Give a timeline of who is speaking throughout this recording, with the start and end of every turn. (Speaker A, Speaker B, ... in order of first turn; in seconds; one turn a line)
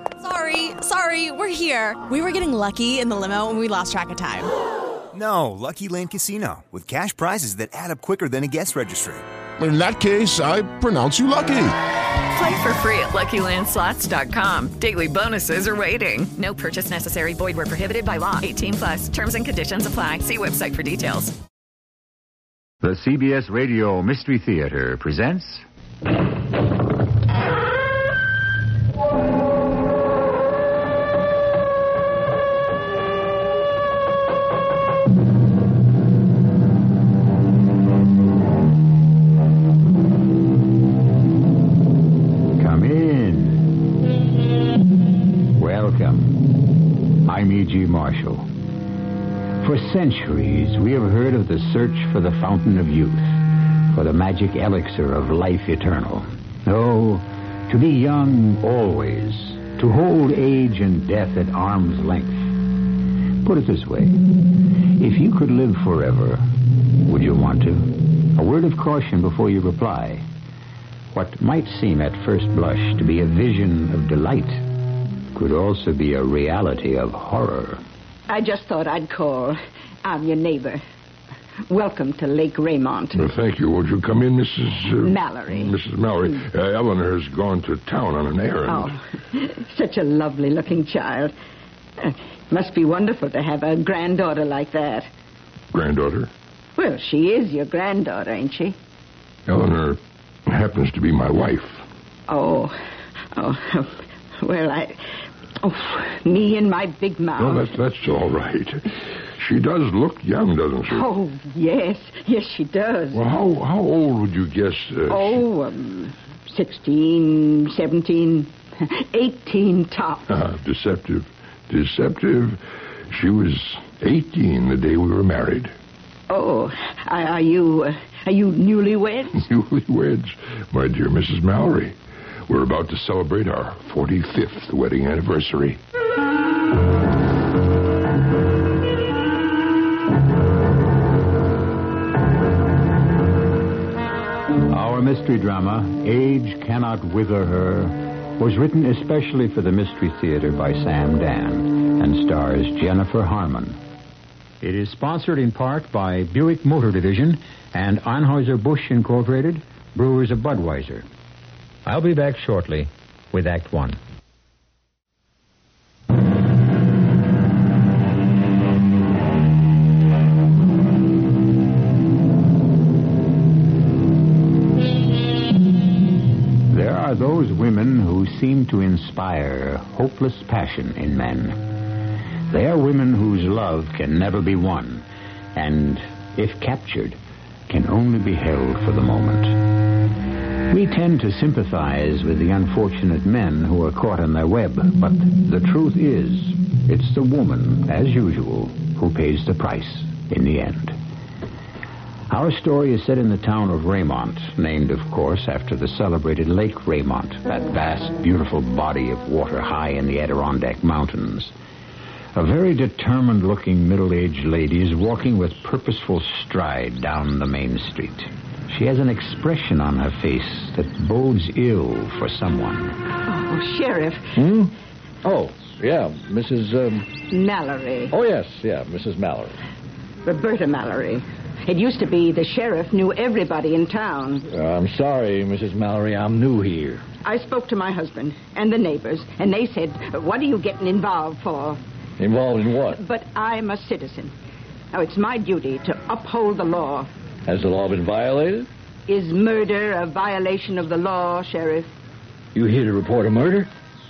Speaker A: 0.2-4.5
Speaker B: 5.1-9.2
Speaker C: 9.6-11.7
Speaker D: 12.3-21.4
Speaker E: 22.8-25.6
Speaker E: 42.6-43.8
Speaker E: 45.5-46.7
Speaker E: 47.2-48.5
Speaker E: 49.6-62.6
Speaker E: 63.4-64.2
Speaker E: 65.0-66.4
Speaker E: 67.0-70.2
Speaker E: 71.1-74.6
Speaker E: 75.3-77.8
Speaker F: 78.3-80.8
Speaker F: 81.7-83.2
Speaker G: 83.1-88.9
Speaker F: 85.0-85.7
Speaker F: 88.7-91.3
Speaker F: 92.0-95.1
Speaker G: 95.7-96.3
Speaker F: 96.8-98.7
Speaker G: 99.5-101.8
Speaker F: 102.3-102.8
Speaker F: 103.3-105.0
Speaker F: 105.6-107.7
Speaker G: 107.4-111.1
Speaker F: 110.9-113.2
Speaker G: 113.1-115.4
Speaker F: 115.1-120.3
Speaker G: 120.3-125.7
Speaker F: 126.3-129.4
Speaker G: 129.4-135.8
Speaker E: 144.7-153.8
Speaker E: 154.6-161.1
Speaker E: 161.8-164.0
Speaker E: 176.7-181.6
Speaker E: 182.5-189.7
Speaker E: 190.7-201.0
Speaker E: 202.3-211.5
Speaker E: 212.3-223.0
Speaker F: 223.2-224.4
Speaker H: 224.3-224.7
Speaker H: 225.2-227.1
Speaker F: 227.3-228.1
Speaker H: 228.1-229.6
Speaker F: 230.2-234.4
Speaker H: 234.5-237.0
Speaker F: 237.2-241.8
Speaker H: 242.2-243.0
Speaker F: 242.9-244.3
Speaker F: 244.9-247.1
Speaker H: 247.5-248.7
Speaker F: 249.1-251.9
Speaker H: 252.5-253.7